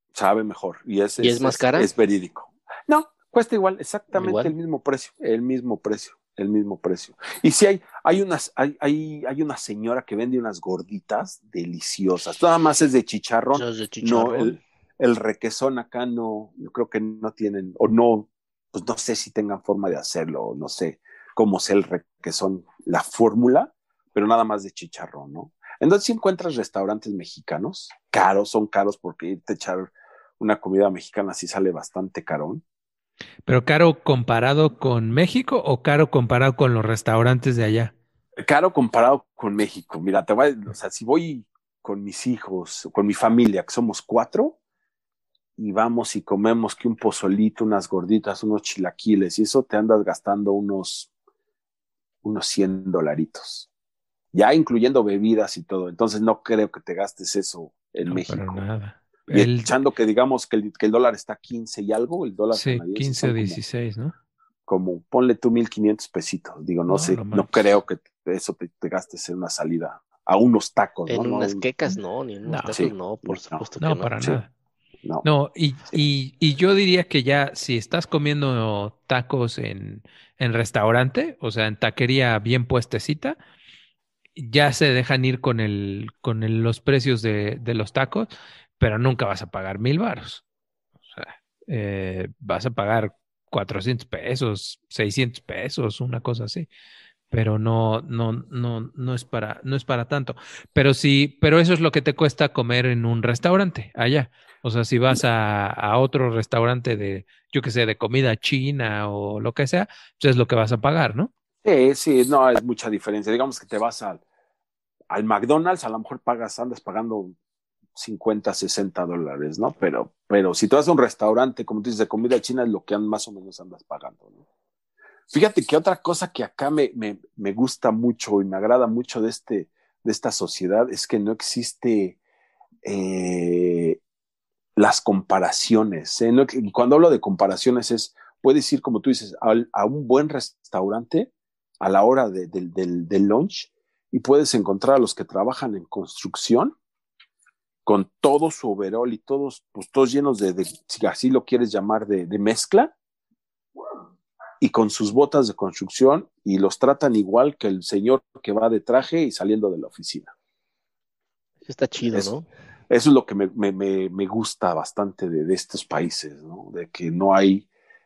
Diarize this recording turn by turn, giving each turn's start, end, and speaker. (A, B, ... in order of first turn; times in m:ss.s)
0:00.1-0:32.6 A
0:01.2-0:01.9 B
0:04.1-0:04.5 B
0:13.5-0:14.6 B
0:33.4-0:37.9 C
0:38.4-0:44.6 A
0:45.6-0:51.1 A
0:52.2-0:53.7 A
0:54.3-0:58.6 A
0:58.0-0:59.7 C
0:59.3-1:03.6 A
1:02.5-1:04.1 C
1:04.7-1:11.6 A
1:06.9-1:07.6 C
1:11.1-1:14.1 B
1:12.4-1:12.8 C
1:12.7-1:13.6 A
1:13.8-1:14.5 C
1:15.2-1:23.4 C
1:24.4-1:30.4 C
1:31.0-1:36.7 C
1:37.3-1:51.3 C
1:51.6-1:54.2 A
1:55.1-1:57.4 A
1:57.9-2:04.4 A
2:05.3-2:12.2 A
2:12.8-2:14.0 A
2:14.8-2:26.7 A
2:27.8-2:32.9 A
2:34.6-2:40.3 A
2:41.6-2:42.5 B
2:42.9-2:47.7 A